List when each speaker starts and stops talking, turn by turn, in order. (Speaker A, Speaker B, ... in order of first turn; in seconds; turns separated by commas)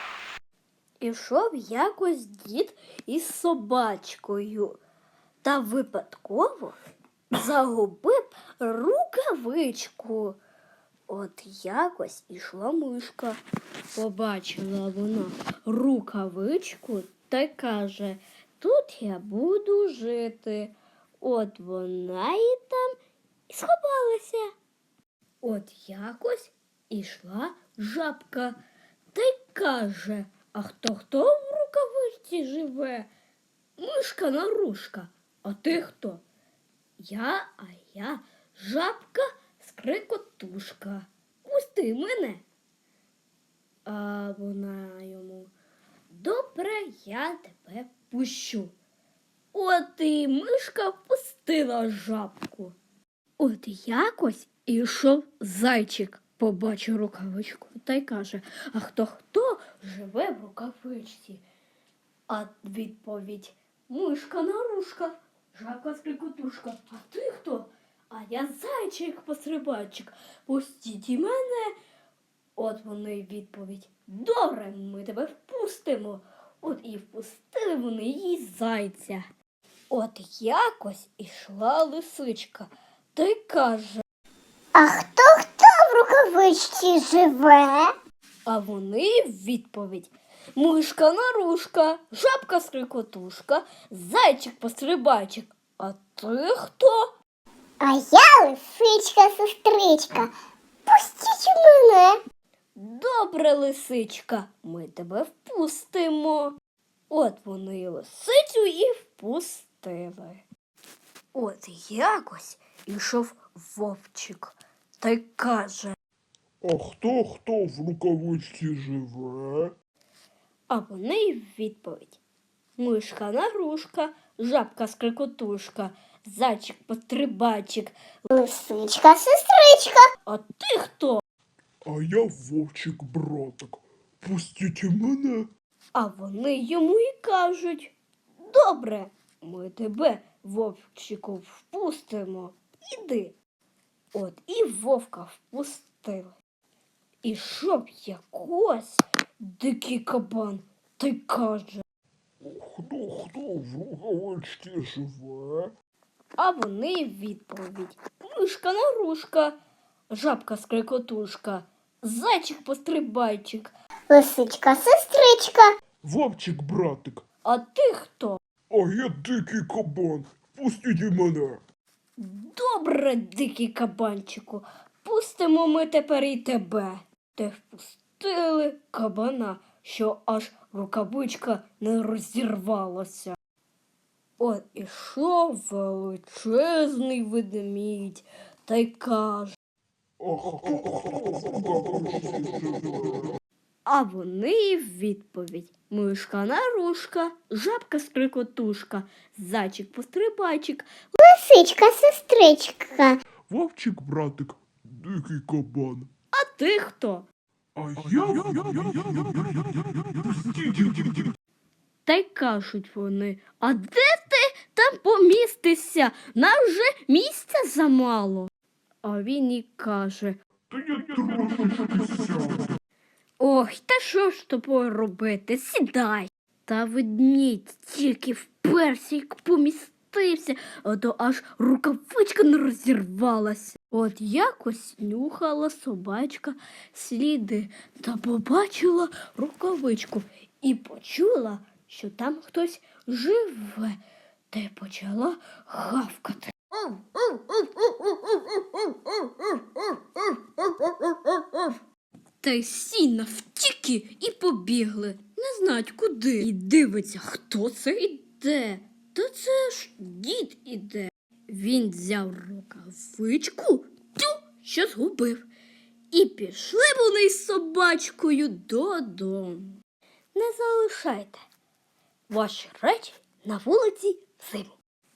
Speaker A: 1.0-4.8, Speaker A: 5.4-6.8, Speaker A: 7.3-10.4, Speaker A: 11.1-13.4, Speaker A: 13.9-23.0, Speaker A: 23.5-24.5, Speaker A: 25.4-28.6, Speaker A: 29.1-33.1, Speaker A: 33.8-36.2, Speaker A: 37.0-42.4, Speaker A: 43.9-45.5, Speaker A: 46.1-48.7, Speaker A: 49.5-52.8, Speaker A: 53.4-61.4, Speaker A: 62.3-71.7, Speaker A: 72.6-79.2, Speaker A: 79.9-84.0, Speaker B: 84.8-87.9, Speaker A: 88.5-97.1, Speaker B: 97.8-100.3, Speaker B: 100.9-102.2, Speaker A: 102.8-106.6, Speaker A: 107.1-110.4, Speaker A: 111.3-116.0, Speaker C: 116.6-119.7, Speaker A: 120.7-122.2, Speaker A: 122.8-128.0, Speaker B: 128.3-130.1, Speaker A: 130.2-131.2, Speaker C: 131.8-135.5, Speaker A: 135.9-143.3, Speaker A: 144.1-146.4, Speaker A: 147.2-151.8, Speaker C: 152.4-155.7, Speaker A: 156.4-159.5, Speaker A: 160.1-163.7, Speaker B: 164.1-165.7, Speaker C: 166.0-167.2, Speaker A: 167.4-168.4, Speaker C: 168.7-171.6, Speaker A: 172.2-183.4, Speaker A: 184.4-189.6, Speaker C: 190.2-193.3, Speaker A: 193.8-200.9, Speaker B: 201.2-203.2, Speaker C: 203.5-206.1, Speaker A: 206.3-207.3, Speaker C: 207.8-211.3, Speaker A: 212.1-218.5, Speaker A: 219.0-220.4, Speaker C: 220.7-222.7, Speaker A: 223.4-244.0, Speaker A: 244.5-251.8, Speaker A: 252.4-265.5, Speaker A: 266.1-269.8, Speaker A: 270.4-271.4, Speaker A: 272.3-274.8